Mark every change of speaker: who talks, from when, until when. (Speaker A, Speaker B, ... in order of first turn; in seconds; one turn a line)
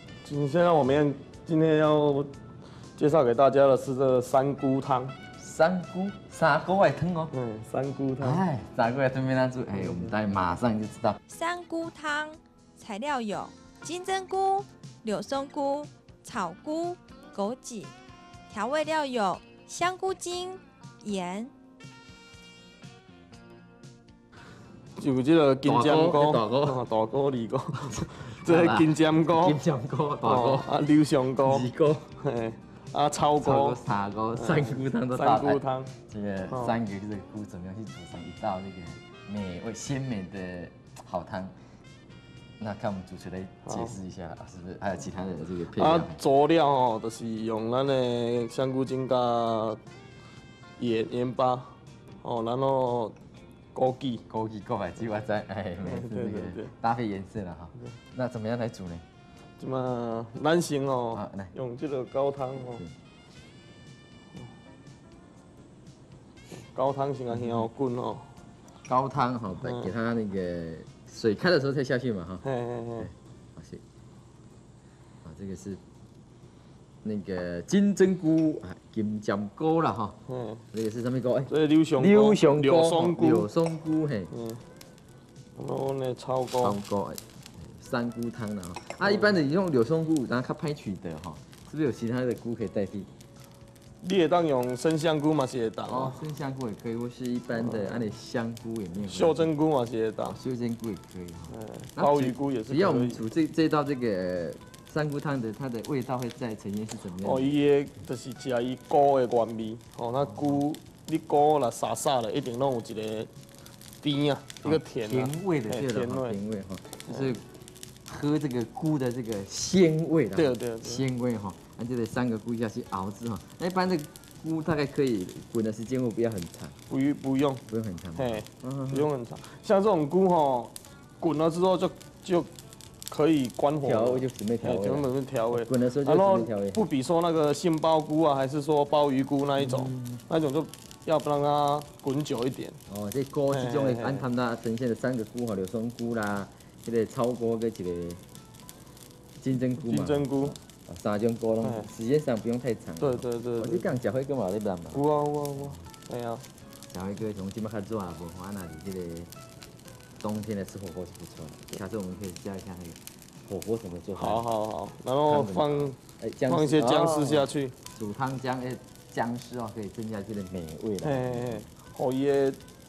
Speaker A: 0.2-2.3
Speaker A: 3.0-5.2
Speaker B: 5.4-7.3
Speaker A: 7.3-8.4
Speaker B: 8.2-11.2
Speaker A: 9.7-10.2
Speaker C: 11.3-17.9
Speaker C: 18.5-21.5
Speaker A: 25.0-29.6
Speaker B: 25.6-26.8
Speaker B: 27.9-30.8
Speaker A: 30.2-33.8
Speaker B: 31.4-32.1
Speaker B: 33.4-41.5
Speaker A: 34.4-35.9
Speaker A: 36.5-36.8
Speaker B: 42.6-46.2
Speaker A: 43.7-44.0
Speaker A: 45.6-49.8
Speaker A: 50.8-53.2
Speaker A: 53.7-54.2
Speaker B: 54.3-59.0
Speaker A: 55.8-56.7
Speaker A: 59.6-62.8
Speaker B: 61.1-61.5
Speaker B: 62.6-62.9
Speaker A: 66.5-68.3
Speaker B: 67.3-67.7
Speaker B: 68.9-72.5
Speaker A: 69.6-69.9
Speaker A: 72.4-73.1
Speaker B: 73.0-73.8
Speaker B: 75.2-75.8
Speaker B: 77.0-80.2
Speaker A: 80.3-80.6
Speaker B: 80.7-84.3
Speaker A: 81.5-83.5
Speaker A: 84.3-84.6
Speaker A: 85.6-86.8
Speaker B: 86.6-93.1
Speaker A: 89.0-89.3
Speaker A: 94.0-96.2
Speaker B: 95.9-99.5
Speaker A: 97.5-98.1
Speaker A: 99.0-100.4
Speaker B: 100.2-107.5
Speaker A: 101.5-103.2
Speaker A: 107.2-113.3
Speaker B: 110.2-110.6
Speaker A: 114.0-116.4
Speaker B: 114.6-117.4
Speaker B: 118.1-126.8
Speaker A: 120.3-121.0
Speaker A: 126.9-132.5
Speaker B: 127.7-129.1
Speaker A: 133.1-142.8
Speaker B: 133.8-136.8
Speaker B: 139.6-140.2
Speaker B: 142.9-148.2
Speaker A: 143.5-144.3
Speaker B: 149.4-155.0
Speaker A: 149.8-150.6
Speaker A: 151.6-151.9
Speaker A: 153.0-153.9
Speaker A: 154.9-156.4
Speaker B: 155.6-155.9
Speaker B: 156.9-159.3
Speaker B: 160.2-164.4
Speaker A: 164.2-167.8
Speaker B: 165.3-171.7
Speaker A: 171.0-172.6